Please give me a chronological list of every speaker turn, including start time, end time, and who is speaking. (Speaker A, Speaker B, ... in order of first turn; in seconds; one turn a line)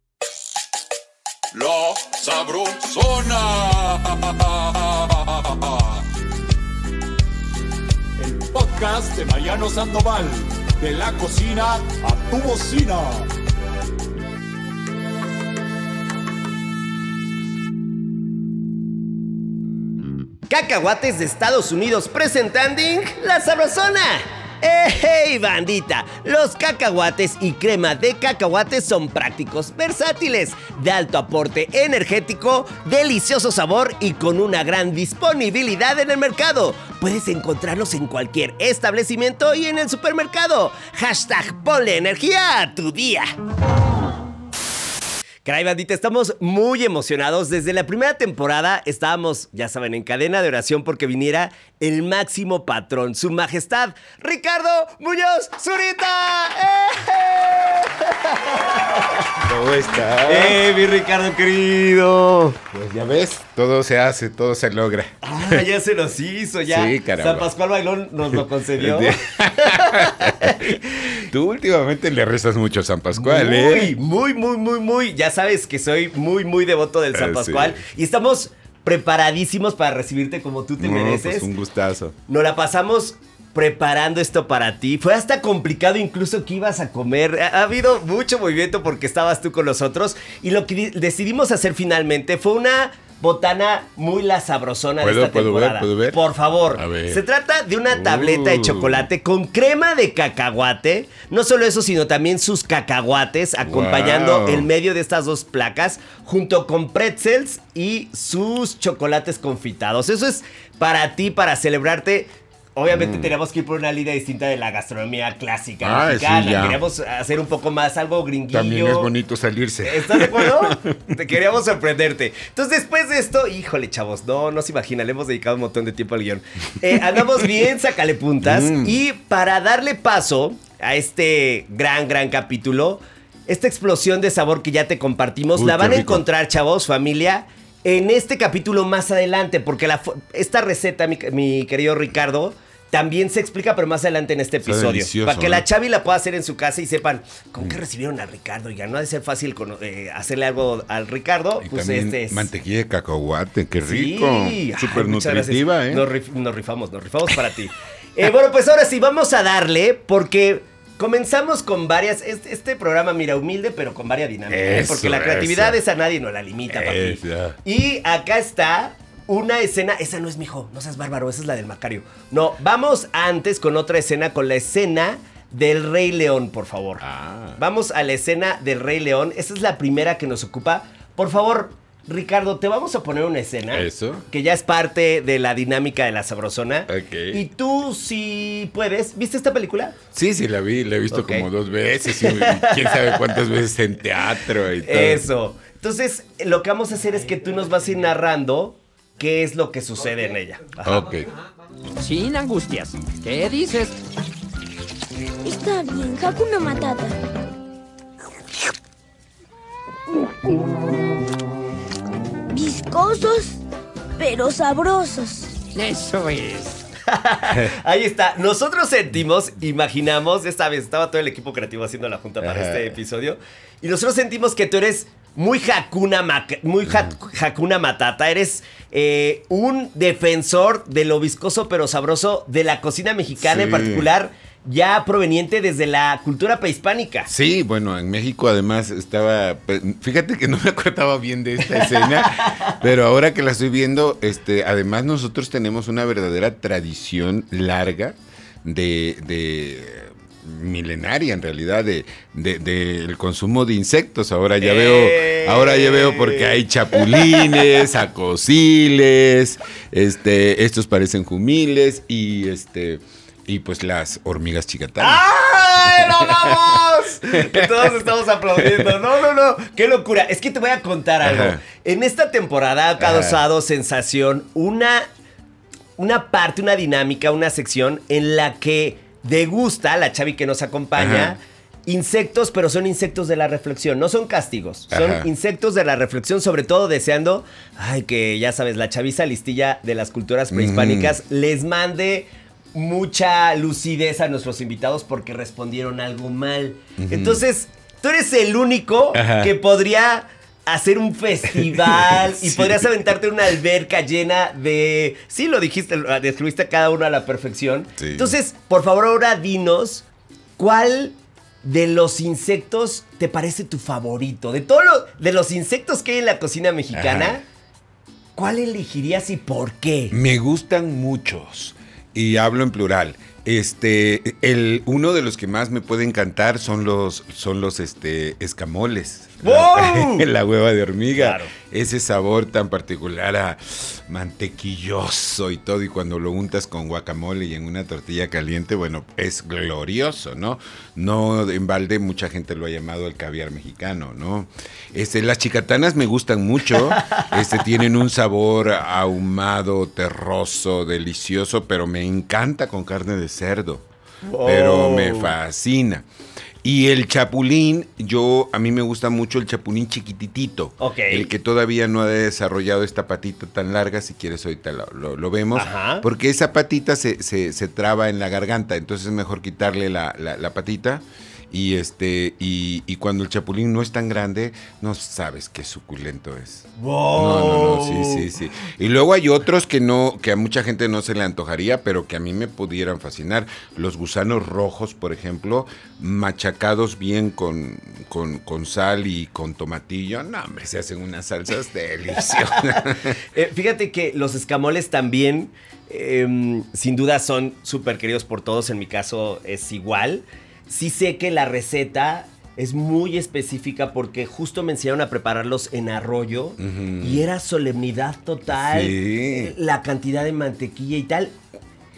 Speaker A: 1.5-6.0
Speaker A: 8.2-13.3
Speaker B: 20.5-43.3
Speaker B: 45.5-59.4
Speaker C: 59.4-60.6
Speaker B: 60.3-62.6
Speaker C: 62.7-65.6
Speaker B: 65.2-70.9
Speaker C: 66.7-67.5
Speaker C: 68.3-73.9
Speaker B: 73.1-81.5
Speaker C: 77.1-77.8
Speaker C: 80.8-82.2
Speaker B: 82.3-119.1
Speaker C: 95.0-96.2
Speaker C: 96.7-97.2
Speaker C: 97.9-99.1
Speaker C: 103.6-104.7
Speaker C: 112.9-113.3
Speaker C: 115.8-116.8
Speaker C: 118.5-121.2
Speaker B: 119.8-152.5
Speaker C: 127.0-127.2
Speaker C: 128.4-129.0
Speaker C: 135.5-136.2
Speaker C: 144.6-145.7
Speaker C: 151.6-156.1
Speaker B: 153.8-177.0
Speaker C: 164.5-165.8
Speaker C: 166.7-167.6
Speaker C: 177.0-177.6
Speaker B: 177.6-190.0
Speaker C: 183.7-184.3
Speaker C: 186.9-187.4
Speaker C: 190.1-195.2
Speaker B: 191.1-191.5
Speaker B: 192.1-193.5
Speaker B: 194.8-201.1
Speaker C: 200.8-201.3
Speaker D: 202.0-204.0
Speaker E: 205.4-207.2
Speaker E: 212.5-213.6
Speaker E: 214.2-215.6
Speaker D: 215.7-216.8
Speaker B: 217.1-237.3
Speaker C: 217.5-217.7
Speaker C: 222.4-223.0
Speaker C: 233.4-234.1
Speaker C: 237.3-266.7
Speaker B: 241.7-242.8
Speaker B: 254.6-257.9
Speaker B: 265.0-275.1
Speaker C: 267.2-267.9
Speaker C: 268.6-269.0
Speaker C: 271.2-271.6
Speaker C: 273.0-273.4
Speaker B: 276.0-310.1
Speaker C: 281.0-281.4
Speaker C: 284.9-285.3
Speaker C: 290.5-291.2
Speaker C: 297.0-297.4
Speaker C: 299.1-299.5
Speaker C: 301.5-302.9
Speaker C: 308.0-308.4
Speaker B: 310.6-317.4
Speaker C: 316.9-317.4
Speaker B: 318.4-320.1
Speaker C: 320.1-353.9
Speaker B: 329.4-330.3
Speaker B: 331.2-331.5
Speaker B: 346.9-347.3
Speaker B: 354.2-355.3
Speaker C: 354.4-356.1
Speaker C: 356.6-393.2
Speaker B: 360.8-361.3
Speaker B: 365.5-366.1
Speaker B: 376.8-378.3
Speaker B: 392.5-411.4
Speaker C: 406.6-407.2
Speaker C: 408.5-409.5